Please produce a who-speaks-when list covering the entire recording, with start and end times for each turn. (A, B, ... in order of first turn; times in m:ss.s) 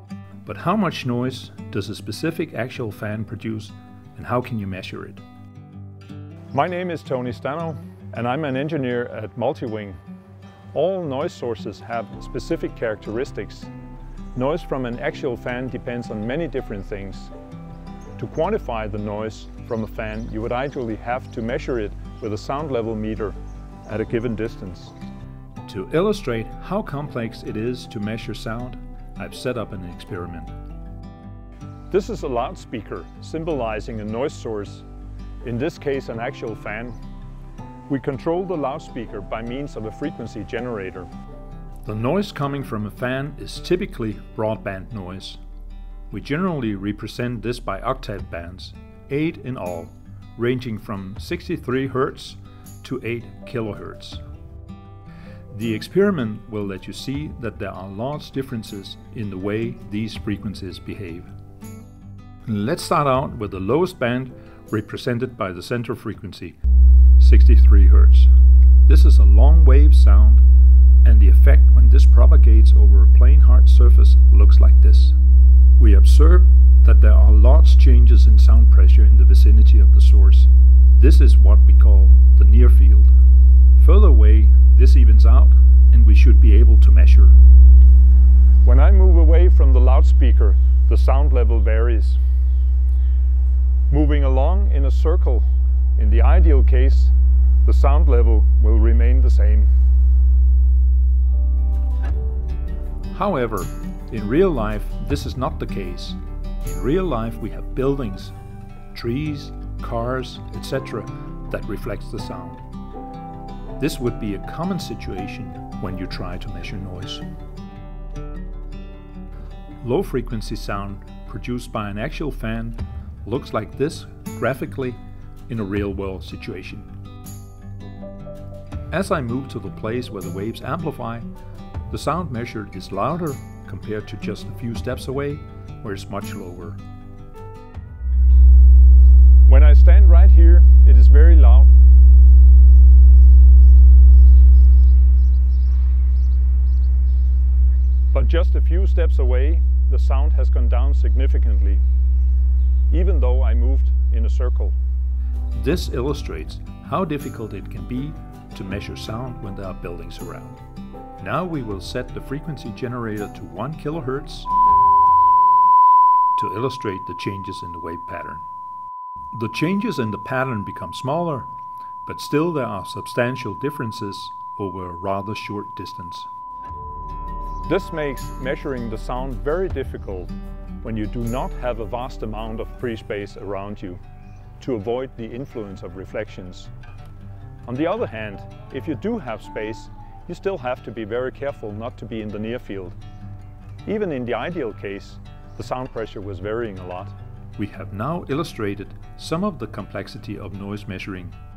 0:00.4-0:05.2 A
0:06.5-0:10.0 B
0:10.7-0:13.7 B
0:14.4-0:17.3 B
0:18.2-0:24.9 B
0:25.6-0:30.5 A
0:31.9-0:34.9 B
0:35.4-0:37.0 B
0:37.9-0:41.1 B
0:41.8-0:45.4 A
0:46.1-0:54.2 A
0:55.5-1:01.3 A
1:02.5-1:06.6 A
1:07.2-1:08.3 A
1:08.9-1:10.4 A
1:11.0-1:15.2 A
1:15.8-1:23.1 A
1:23.8-1:27.4 A
1:28.6-1:32.2 B
1:33.9-1:37.1 B
1:37.6-1:39.7 B
1:43.1-1:48.3 A
1:48.9-1:52.6 A
1:53.8-1:57.2 A
1:59.8-2:06.9 A
2:08.9-2:11.3 A
2:11.9-2:16.8 A
2:19.5-2:21.7 B
2:28.1-2:31.8 B
2:32.9-2:34.8 B
2:35.5-2:40.6 A
2:41.2-2:44.5 A
2:46.4-2:48.4 A
2:49.3-2:51.5 A
2:52.0-2:56.3 A
2:57.7-3:04.0 B
3:04.6-3:06.7 B
3:07.7-3:13.0 B
3:13.9-3:17.2 B
3:17.6-3:21.3 A